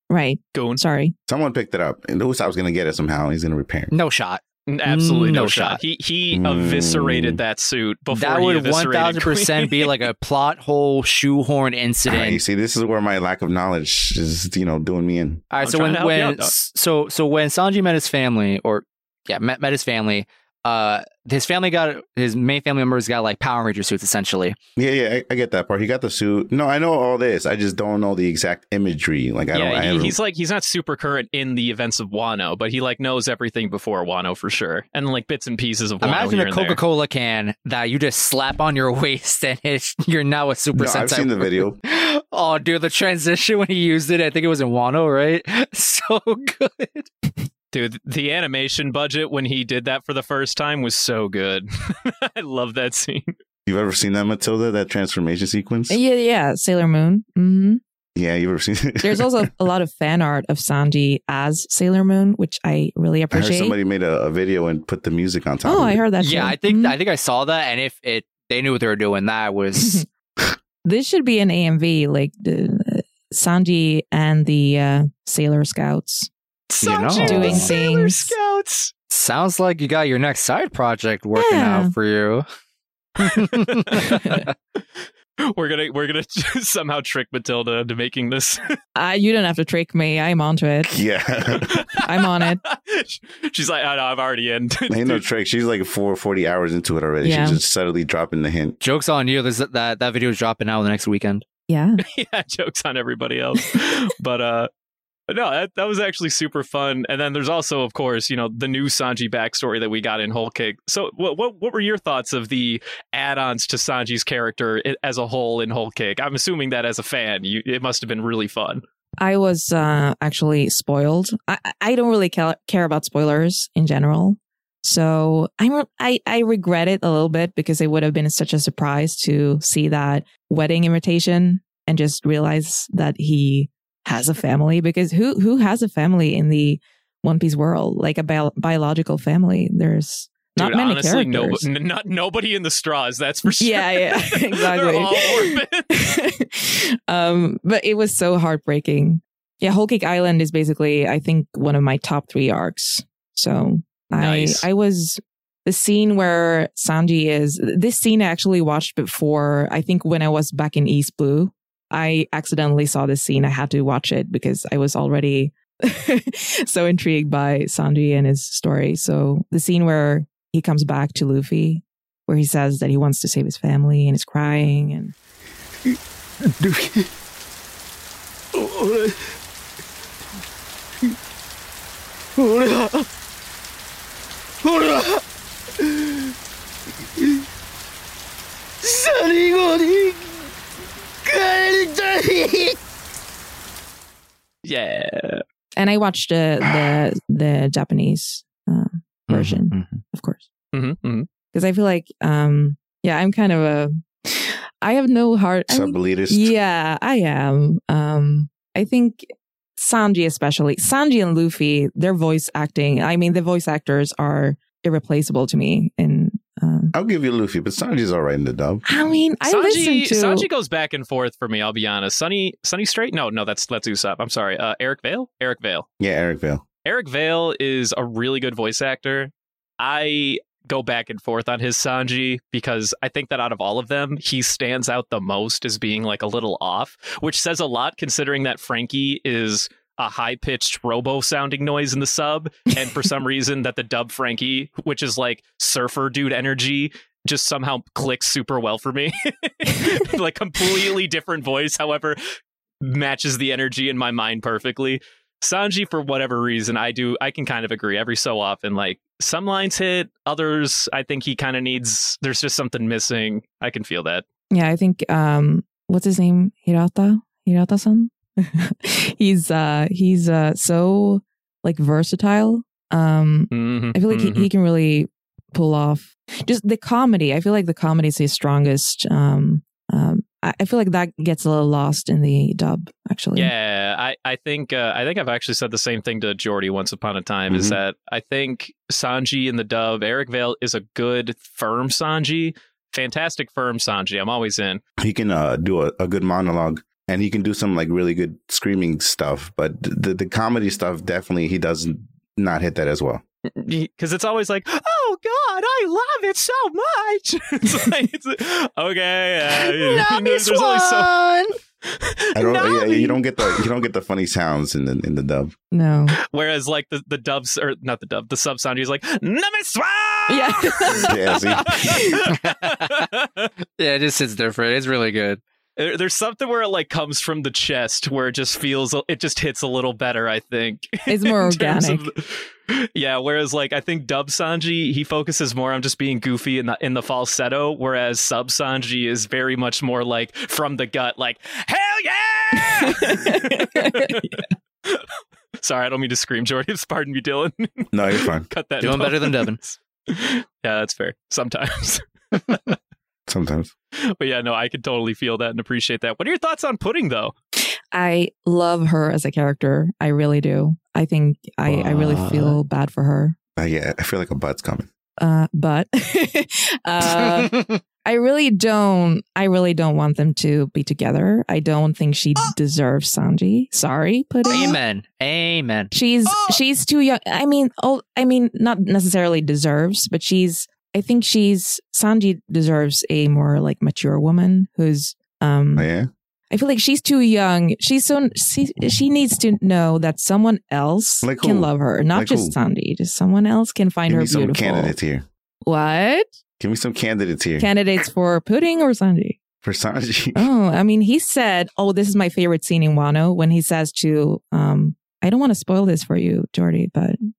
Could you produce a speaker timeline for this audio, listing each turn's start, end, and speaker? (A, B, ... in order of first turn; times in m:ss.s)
0:00.1-0:01.2 A
0:00.6-0:00.8 B
0:01.3-0:03.9 C
0:03.9-0:05.8 D
0:04.7-0:09.9 B
0:06.3-0:07.4 C
0:08.1-0:12.4 D
0:12.1-0:15.4 C
0:15.5-0:24.6 D
0:15.6-0:16.5 B
0:24.8-0:30.2 C
0:29.5-0:36.8 B
0:36.0-0:47.1 D
0:40.8-0:41.8 C
0:47.7-0:53.3 B
0:53.7-0:56.0 C
0:55.9-0:57.8 A
0:58.2-0:59.5 C
0:59.0-1:03.8 A
1:03.3-1:06.0 C
1:05.6-1:07.0 A
1:06.2-1:10.0 D
1:09.8-1:10.0 A
1:10.8-1:16.3 A
1:16.7-1:18.9 B
1:16.8-1:17.7 D
1:17.1-1:18.4 A
1:19.1-1:22.5 D
1:21.4-1:21.9 A
1:23.2-1:24.5 D
1:23.4-1:24.8 B
1:25.5-1:28.7 B
1:29.0-1:31.0 A
1:30.9-1:31.8 C
1:31.5-1:35.2 B
1:32.0-1:32.6 A
1:34.9-1:38.8 C
1:37.2-1:37.6 A
1:38.8-1:41.4 D
1:41.7-1:42.0 A
1:42.0-1:44.7 B
1:45.3-1:58.8 B
1:59.2-2:21.7 A
2:20.6-2:26.1 B
2:23.5-2:55.2 A
2:34.2-2:34.6 B
2:56.6-2:57.1 E
2:58.6-2:59.2 E
3:02.4-3:03.1 E
3:04.6-3:05.2 E
3:05.8-3:06.3 E
3:08.8-3:10.4 E
3:11.2-3:12.8 E
3:14.6-3:15.4 B
3:15.8-3:20.5 A
3:19.3-3:20.0 D
3:20.7-3:21.3 B
3:21.5-3:36.9 A
3:25.7-3:26.5 C
3:36.9-3:38.8 C
3:38.9-3:40.5 A
3:39.4-3:45.9 B
3:46.0-3:46.6 C
3:46.8-4:12.2 B
4:12.8-4:24.2 B
4:24.5-4:43.5 A
4:33.5-4:34.5 B
4:43.4-4:54.8 B
4:47.5-4:47.8 C
4:55.0-5:03.2 C
5:03.6-5:11.2 B
5:09.5-5:11.5 D
5:11.9-5:13.2 B
5:12.4-5:15.6 C
5:15.7-5:16.2 A
5:16.3-5:21.2 B
5:20.3-5:22.2 A
5:21.0-5:21.8 C
5:21.8-5:23.5 B
5:22.3-5:23.1 D
5:23.8-5:25.4 D
5:25.8-5:45.1 B
5:31.1-5:32.1 A
5:42.8-5:44.2 A
5:45.6-5:49.5 B
5:47.9-5:48.5 C
5:48.8-5:49.7 D
5:50.1-5:52.8 B
5:53.3-5:53.7 C
5:54.2-5:57.3 B
5:57.9-6:03.4 A
6:01.7-6:02.6 D
6:03.6-6:04.9 C
6:05.2-6:14.8 A
6:07.1-6:07.8 D
6:14.5-6:15.9 D
6:15.9-6:25.9 A
6:25.8-6:26.1 C
6:26.5-6:35.0 A
6:31.2-6:32.6 C
6:34.1-6:35.2 C
6:35.6-6:36.3 A
6:36.6-6:37.7 C
6:37.6-6:39.4 A
6:39.6-6:40.5 C
6:40.4-6:47.2 A